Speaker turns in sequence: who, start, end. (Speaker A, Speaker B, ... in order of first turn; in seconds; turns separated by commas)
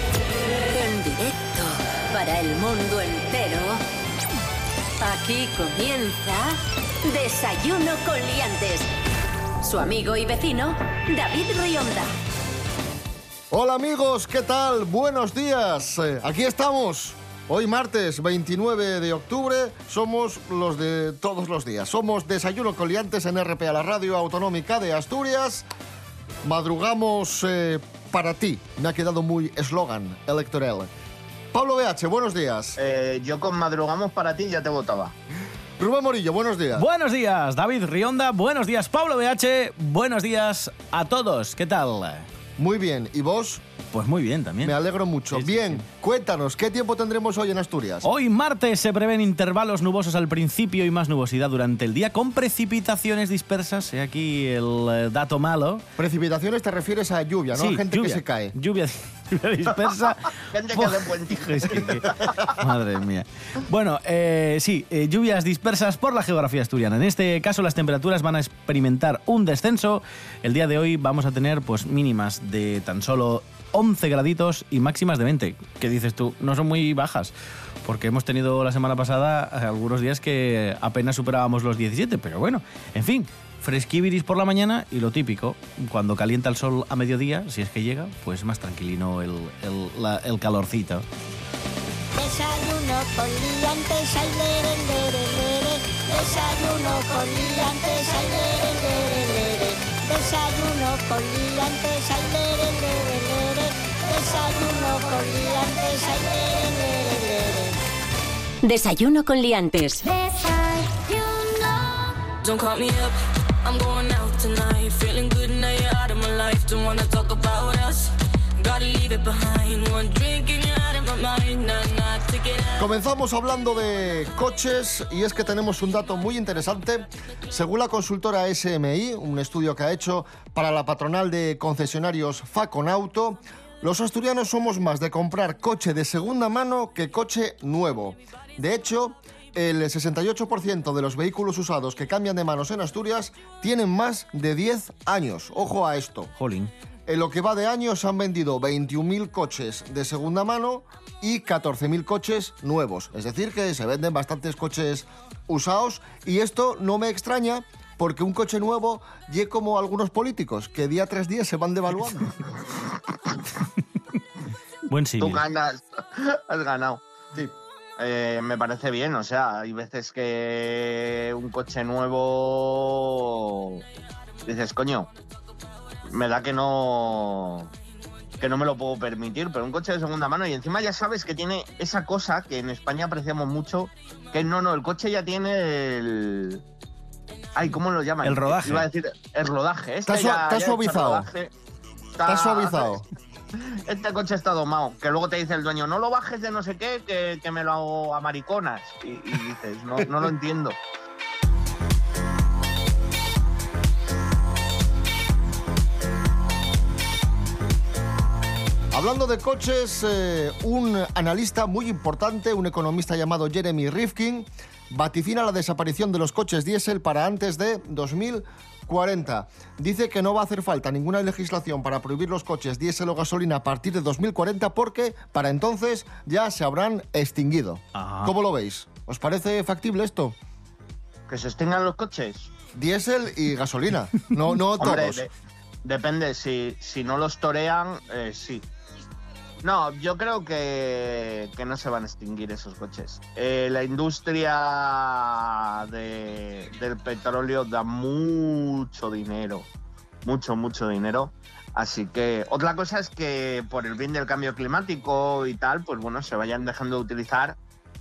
Speaker A: 0.5-3.8, Speaker A: 5.0-8.9, Speaker A: 9.6-12.1, Speaker B: 13.5-25.7, Speaker B: 26.4-30.9, Speaker B: 31.5-32.8, Speaker C: 32.8-35.1, Speaker B: 35.8-36.9, Speaker D: 36.8-42.3, Speaker B: 42.6-43.6, Speaker D: 43.9-44.8, Speaker B: 44.6-48.1, Speaker D: 45.3-45.8, Speaker D: 48.0-55.8, Speaker B: 56.0-58.5, Speaker D: 57.5-77.3, Speaker C: 60.5-62.1, Speaker D: 77.8-91.0, Speaker E: 92.2-107.7, Speaker A: 108.6-110.4, Speaker F: 112.4-122.9, Speaker B: 122.8-146.3, Speaker D: 146.4-146.7, Speaker B: 147.1-162.3, Speaker D: 164.9-165.4, Speaker C: 165.2-167.0, Speaker C: 168.0-173.8, Speaker C: 174.4-175.1, Speaker C: 176.1-177.7, Speaker C: 178.4-186.6, Speaker C: 187.6-191.5, Speaker D: 188.2-188.9, Speaker B: 190.1-191.3, Speaker C: 192.2-193.0, Speaker B: 192.2-193.0, Speaker C: 193.9-200.8, Speaker B: 208.9-230.4, Speaker D: 227.9-228.3, Speaker C: 231.3-232.5, Speaker B: 232.7-235.2, Speaker C: 234.8-235.3, Speaker C: 235.8-238.6, Speaker C: 239.6-249.7, Speaker C: 250.2-257.6